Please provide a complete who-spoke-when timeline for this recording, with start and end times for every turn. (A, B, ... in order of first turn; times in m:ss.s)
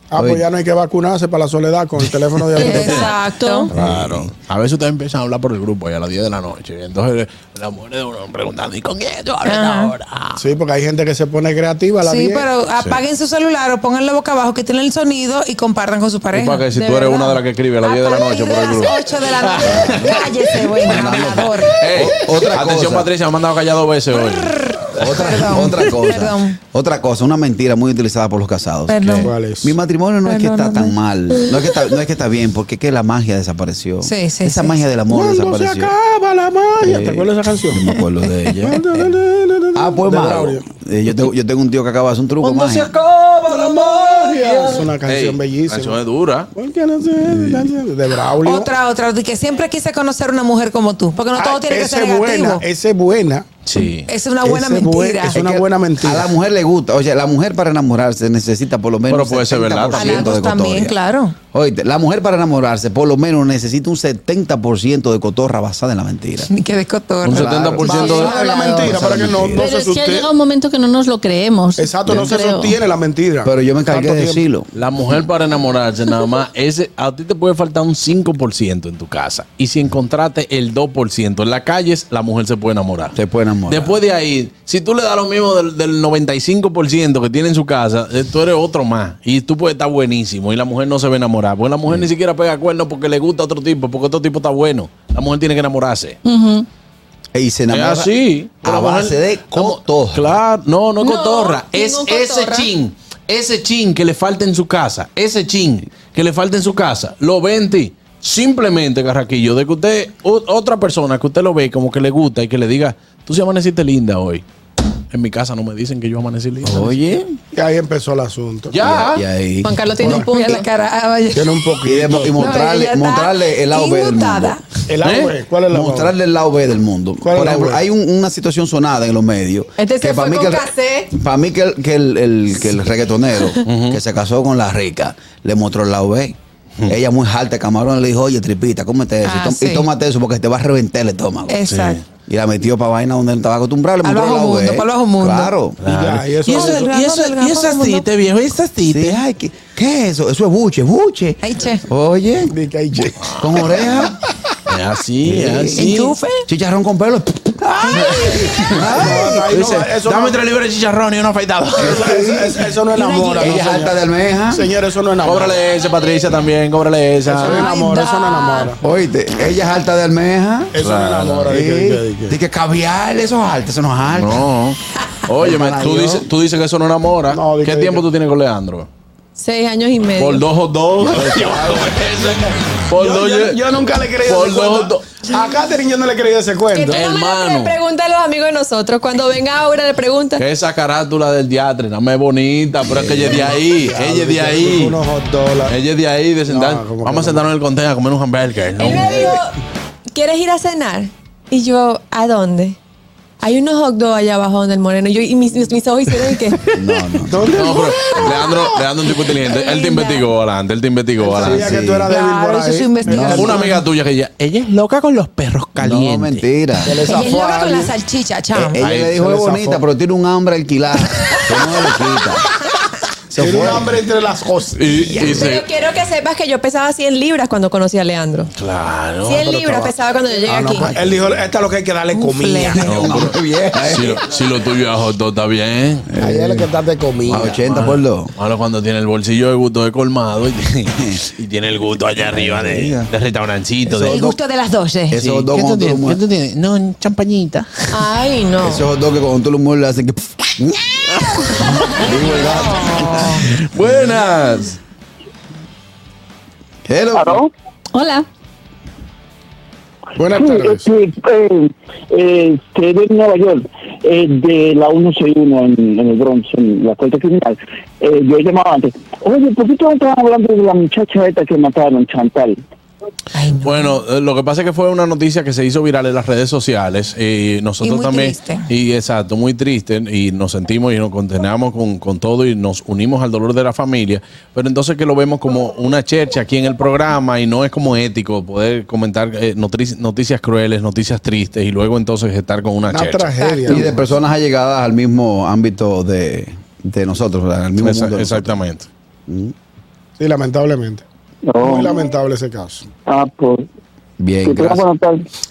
0:00.1-0:03.2 A
0:00.2-0:00.4 B
0:02.6-0:03.7 C
0:02.6-0:03.7 D
0:03.7-0:10.4 E
0:03.7-0:04.3 B
0:09.4-0:09.9 C
0:10.4-0:12.5 A
0:12.0-0:21.8 C
0:16.3-0:25.1 E
0:19.8-0:20.2 B
0:20.8-0:23.1 B
0:24.1-0:26.6 C
0:25.0-0:29.0 B
0:28.9-0:29.3 C
0:29.0-0:29.3 E
0:29.2-0:29.8 A
0:29.6-0:35.9 B
0:30.3-0:31.0 C
0:34.0-0:34.8 C
0:35.1-0:37.8 A
0:36.8-0:38.8 B
0:38.6-0:40.6 A
0:39.8-0:43.0 B
0:42.4-0:46.5 E
0:43.5-0:46.0 A
0:46.5-0:48.7 A
0:47.2-0:47.7 B
0:48.4-0:52.6 C
0:51.3-0:53.5 A
0:53.7-0:54.1 E
0:53.8-0:55.6 C
0:54.4-0:56.3 A
0:56.0-1:00.9 B
0:59.1-1:00.3 E
0:59.9-1:01.4 C
1:01.5-1:06.5 B
1:06.5-1:07.5 C
1:07.2-1:08.3 E
1:07.3-1:09.6 B
1:07.8-1:10.3 A
1:07.9-1:09.0 D
1:09.6-1:12.8 D
1:11.8-1:14.4 A
1:12.1-1:12.4 B
1:13.4-1:14.7 B
1:14.7-1:36.2 E
1:23.2-1:24.0 B
1:36.2-1:36.7 D
1:37.3-1:38.1 B
1:37.7-1:54.4 E
1:38.6-1:40.4 B
1:41.0-1:42.5 F
1:55.1-1:57.0 E
1:56.6-1:57.4 B
1:57.5-1:58.8 A
1:58.7-1:59.2 E
1:58.8-2:00.7 B
1:59.6-2:00.7 F
2:00.0-2:00.4 A
2:00.3-2:01.5 C
2:01.3-2:02.5 A
2:01.8-2:04.6 B
2:02.4-2:04.6 F
2:04.9-2:06.1 A
2:05.0-2:05.4 E
2:05.7-2:21.6 B
2:07.2-2:07.8 A
2:09.8-2:11.1 F
2:13.6-2:14.0 E
2:19.2-2:19.9 C
2:21.5-2:22.0 C
2:21.7-2:22.1 E
2:22.3-2:25.8 B
2:24.0-2:25.6 C
2:25.8-2:29.2 E
2:25.8-2:26.9 A
2:26.5-2:28.1 C
2:28.9-2:34.2 B
2:31.4-2:31.8 C
2:32.5-2:33.3 A
2:33.2-2:34.0 E
2:34.7-2:36.2 E
2:35.2-2:39.5 B
2:35.8-2:36.4 C
2:37.8-2:38.5 C
2:37.9-2:42.1 E
2:38.9-2:40.4 A
2:41.8-2:42.7 B
2:41.8-2:45.6 A
2:42.9-2:43.5 C
2:43.4-2:44.7 B
2:43.5-2:43.7 E
2:45.2-2:47.7 E
2:47.2-2:48.8 A
2:47.4-2:48.7 C
2:48.8-2:50.7 B
2:50.7-2:52.4 A
2:50.8-2:51.6 E
2:51.5-2:54.5 B
2:54.1-2:58.9 E
2:55.4-2:56.3 B
2:57.3-2:58.1 A
2:59.4-3:00.5 F
3:00.1-3:05.2 E
3:01.1-3:02.3 A
3:02.9-3:07.1 A
3:06.7-3:10.4 F
3:06.9-3:07.8 E
3:10.4-3:15.0 E
3:13.0-3:15.8 A
3:15.6-3:19.4 E
3:16.4-3:17.5 A
3:18.8-3:19.6 F
3:20.1-3:22.8 F
3:23.4-3:26.6 F
3:26.7-3:27.5 B
3:27.3-3:28.5 A
3:27.5-3:31.8 E
3:27.8-3:30.3 F
3:28.2-3:28.5 B
3:31.2-3:33.6 A
3:31.4-3:32.1 B
3:32.1-3:33.9 C
3:33.1-3:33.6 B
3:33.3-3:36.9 E
3:35.8-3:37.0 B
3:36.8-3:37.9 A
3:37.1-3:38.8 C
3:38.5-3:42.4 B
3:38.8-3:39.2 E
3:39.0-3:39.8 A
3:43.3-3:44.0 B
3:43.4-3:45.4 A
3:44.8-3:45.7 E
3:45.2-3:48.5 F
3:48.5-3:49.5 E
3:49.2-3:50.9 F
3:49.4-3:52.8 A
3:50.8-3:51.2 B
3:52.4-3:52.8 F
3:52.7-3:54.2 B
3:52.8-3:56.1 E
3:56.1-3:56.7 B
3:56.2-3:57.6 A
3:57.3-3:58.3 B
3:57.3-4:04.2 E
4:01.0-4:01.2 B
4:02.3-4:03.1 B
4:03.9-4:04.4 B
4:04.0-4:05.2 C
4:05.1-4:06.2 B
4:05.2-4:08.1 E
4:07.9-4:08.9 F
4:08.6-4:13.2 B
4:12.5-4:13.4 C
4:13.6-4:14.8 E
4:13.8-4:14.1 B
4:16.8-4:17.4 B
4:17.2-4:17.5 G
4:17.9-4:18.3 D
4:20.2-4:20.9 A
4:20.3-4:32.6 G
4:33.4-4:34.0 C
4:33.6-4:53.9 E
4:37.8-4:38.7 C
4:52.9-4:54.2 A
4:53.7-4:58.6 B
4:57.8-4:58.9 E
4:59.3-4:59.5 B
5:00.2-5:01.0 A
5:01.5-5:02.0 G
5:01.6-5:02.8 A
5:03.1-5:03.6 G
5:04.2-5:04.8 B
5:04.4-5:05.2 G